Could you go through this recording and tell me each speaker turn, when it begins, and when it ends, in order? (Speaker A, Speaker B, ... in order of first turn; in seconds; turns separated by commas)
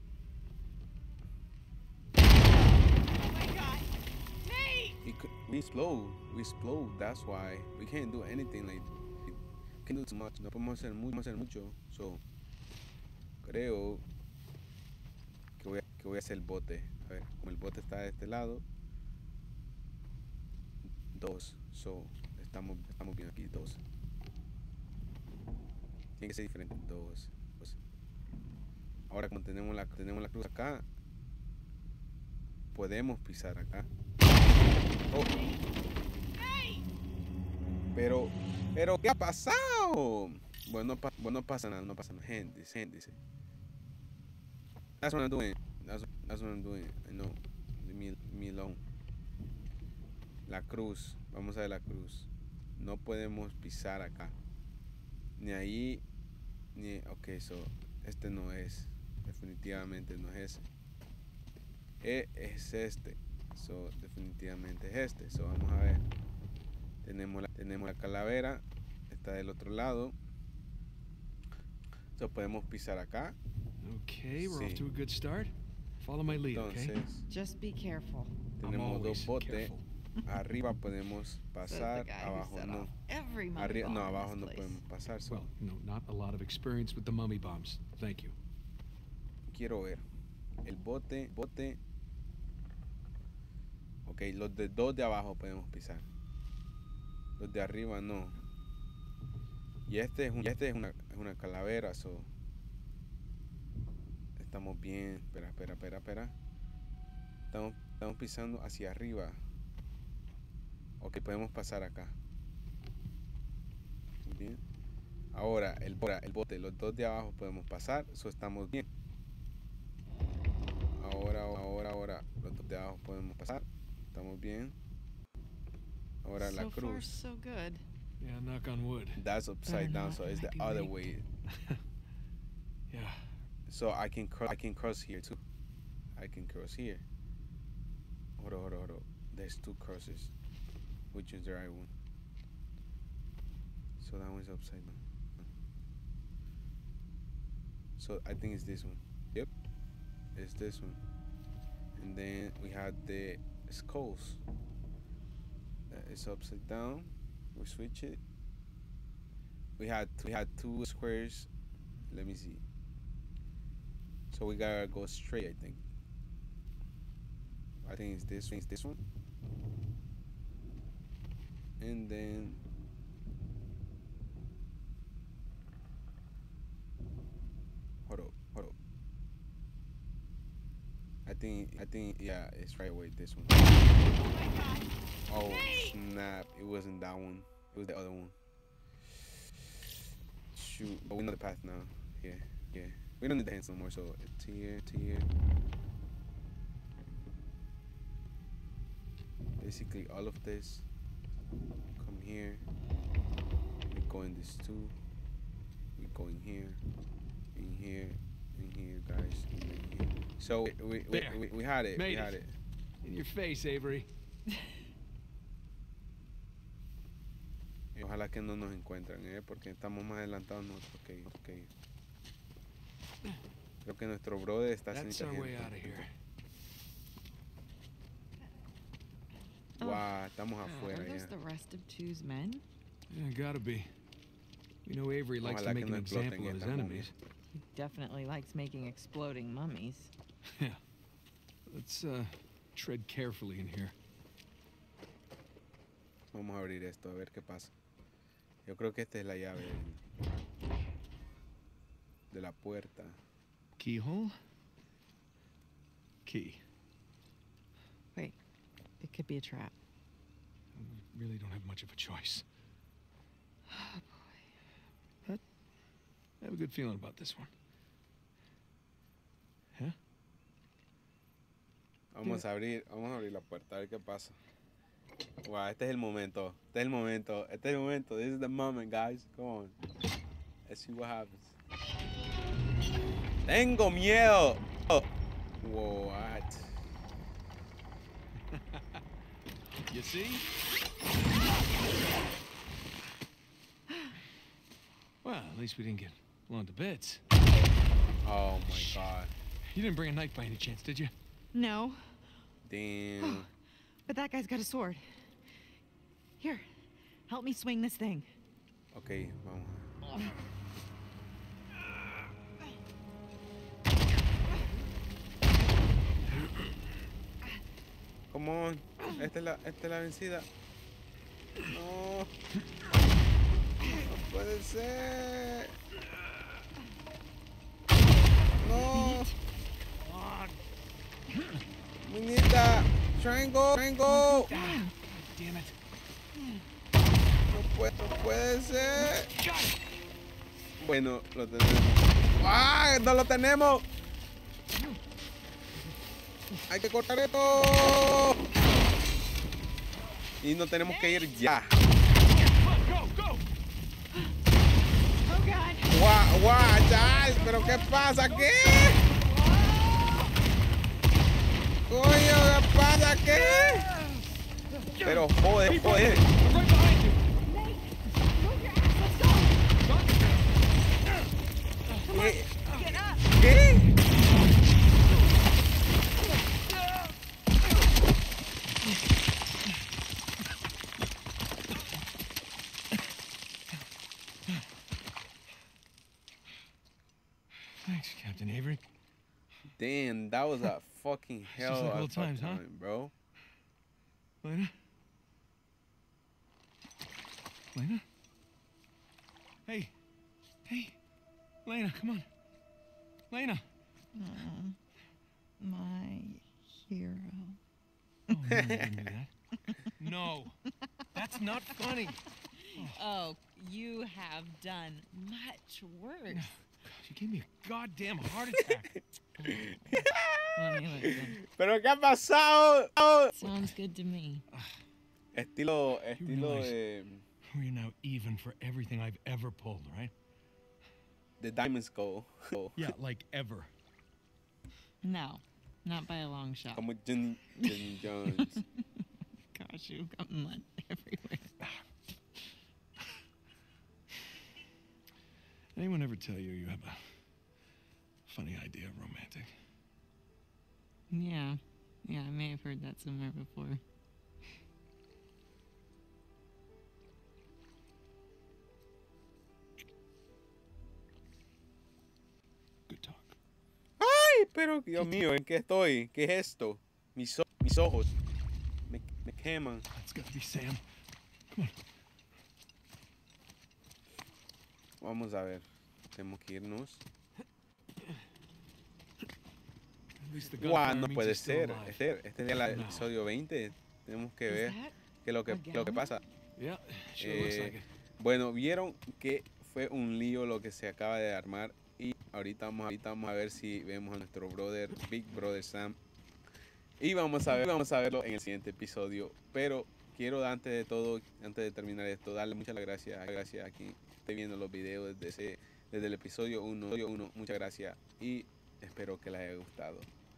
Speaker A: 3.1-3.9, Speaker A: 4.4-5.0, Speaker B: 5.0-12.2, Speaker B: 13.4-14.0, Speaker B: 15.6-18.6, Speaker B: 21.1-23.8, Speaker B: 26.2-27.8, Speaker B: 29.1-30.9, Speaker B: 32.7-33.9, Speaker A: 36.4-36.8, Speaker B: 37.6-43.2, Speaker B: 45.0-48.8, Speaker B: 50.5-54.4, Speaker B: 55.4-56.0, Speaker B: 56.7-60.6, Speaker B: 62.0-66.0, Speaker B: 67.0-70.2, Speaker B: 72.2-73.4, Speaker C: 73.8-77.0, Speaker B: 74.4-74.8, Speaker B: 76.3-77.2, Speaker A: 77.3-78.3, Speaker B: 78.6-79.7, Speaker C: 78.6-79.8, Speaker B: 80.2-82.9, Speaker A: 81.6-84.8, Speaker B: 83.5-85.4, Speaker C: 85.3-88.3, Speaker B: 89.5-90.0, Speaker B: 90.6-91.8, Speaker B: 94.0-96.1, Speaker B: 97.4-98.4, Speaker B: 99.9-102.3, Speaker B: 104.4-106.3, Speaker B: 107.5-109.4, Speaker B: 111.0-112.2, Speaker B: 114.2-114.6, Speaker B: 115.3-118.9, Speaker B: 120.9-124.8, Speaker B: 126.2-127.2, Speaker A: 126.4-127.8, Speaker C: 128.2-129.2, Speaker B: 129.2-131.2, Speaker A: 129.7-131.0, Speaker C: 132.9-133.3, Speaker B: 133.7-135.4, Speaker B: 136.1-137.0, Speaker B: 138.4-140.3, Speaker B: 141.1-141.9, Speaker B: 144.0-145.5, Speaker B: 148.0-149.5, Speaker B: 150.3-151.0, Speaker B: 151.9-154.4, Speaker B: 155.9-158.2, Speaker B: 159.8-161.5, Speaker B: 162.1-162.6, Speaker B: 164.3-165.8, Speaker B: 167.8-169.0, Speaker B: 171.8-172.6, Speaker B: 178.1-178.7, Speaker B: 181.2-183.8, Speaker A: 184.0-184.9, Speaker B: 185.3-188.3, Speaker A: 185.5-185.9, Speaker B: 190.5-195.3, Speaker B: 199.6-200.8, Speaker B: 202.0-202.6, Speaker B: 203.9-204.9, Speaker B: 206.0-206.8, Speaker B: 207.5-212.5, Speaker C: 211.1-211.4, Speaker C: 211.9-212.4, Speaker C: 213.0-214.1, Speaker B: 217.9-221.7, Speaker B: 223.8-226.0, Speaker C: 224.9-226.1, Speaker B: 229.8-231.3, Speaker A: 229.8-230.1, Speaker A: 230.6-232.6, Speaker C: 233.1-233.9, Speaker C: 234.8-237.1, Speaker B: 235.4-237.1, Speaker A: 237.5-240.1, Speaker C: 240.4-240.8, Speaker C: 241.7-243.9, Speaker B: 246.3-247.7, Speaker B: 248.7-250.0, Speaker B: 252.3-253.2, Speaker C: 253.8-254.4, Speaker C: 256.2-256.6, Speaker A: 259.0-259.8, Speaker C: 260.7-262.4, Speaker A: 263.7-264.4, Speaker C: 266.4-267.5, Speaker B: 272.1-274.4, Speaker B: 275.4-279.8, Speaker B: 280.7-281.5, Speaker B: 283.4-285.1, Speaker B: 285.6-286.8, Speaker C: 288.5-289.0, Speaker C: 289.9-290.4, Speaker C: 295.2-297.2, Speaker B: 298.2-299.3, Speaker C: 298.7-299.0, Speaker C: 299.6-301.1, Speaker A: 301.5-302.2, Speaker B: 302.6-303.5, Speaker A: 303.2-303.5, Speaker A: 304.1-305.3, Speaker A: 306.4-306.6, Speaker A: 307.3-308.3, Speaker B: 308.9-309.9, Speaker B: 318.3-320.5, Speaker B: 321.6-322.3, Speaker B: 323.8-325.8, Speaker B: 328.6-329.3, Speaker A: 328.7-329.3, Speaker C: 330.0-330.6, Speaker C: 331.3-331.6, Speaker B: 332.0-334.5, Speaker A: 334.1-334.9, Speaker C: 334.4-335.7, Speaker B: 337.4-339.3, Speaker C: 339.1-339.8, Speaker B: 340.8-343.9, Speaker B: 346.7-348.4, Speaker B: 350.4-351.8, Speaker A: 350.8-351.4, Speaker C: 352.2-353.4, Speaker A: 355.2-356.0, Speaker B: 355.9-359.0, Speaker C: 357.4-359.1, Speaker A: 359.0-360.3, Speaker B: 361.9-363.9, Speaker C: 363.2-367.3, Speaker B: 365.0-366.3, Speaker A: 367.4-369.7, Speaker C: 369.8-370.6, Speaker A: 372.1-373.3, Speaker B: 372.1-372.6, Speaker C: 372.6-372.9, Speaker B: 373.2-374.0, Speaker C: 376.7-377.1, Speaker C: 387.8-388.8, Speaker B: 389.8-393.1, Speaker C: 391.5-392.6, Speaker C: 394.4-394.7, Speaker C: 397.7-398.0, Speaker C: 399.6-399.9, Speaker C: 400.6-401.0, Speaker C: 401.6-402.2, Speaker C: 403.3-403.6, Speaker A: 404.1-404.8, Speaker A: 405.6-407.6, Speaker C: 408.3-409.3, Speaker B: 408.5-409.1, Speaker A: 409.6-409.9, Speaker C: 409.8-410.6, Speaker C: 411.1-413.0, Speaker A: 412.4-416.6, Speaker C: 416.3-419.7, Speaker B: 418.5-418.9, Speaker B: 419.4-423.3, Speaker A: 420.5-421.4, Speaker A: 423.3-424.4, Speaker B: 425.3-427.2, Speaker C: 426.1-426.7, Speaker C: 427.5-430.1, Speaker B: 431.4-432.9, Speaker C: 432.7-433.7, Speaker A: 435.0-436.9, Speaker B: 436.7-438.6, Speaker A: 437.6-438.6, Speaker A: 439.5-441.5, Speaker C: 445.7-447.0, Speaker C: 448.3-449.5, Speaker A: 451.1-453.8, Speaker C: 462.9-463.4, Speaker B: 464.0-468.1, Speaker B: 468.9-469.9, Speaker C: 469.9-470.8, Speaker C: 471.5-471.8, Speaker B: 475.0-477.0, Speaker C: 480.2-482.0, Speaker B: 480.5-486.2, Speaker C: 482.6-483.1, Speaker A: 484.5-484.9, Speaker A: 485.5-486.1, Speaker C: 486.6-487.9, Speaker B: 487.2-496.0, Speaker B: 497.0-510.1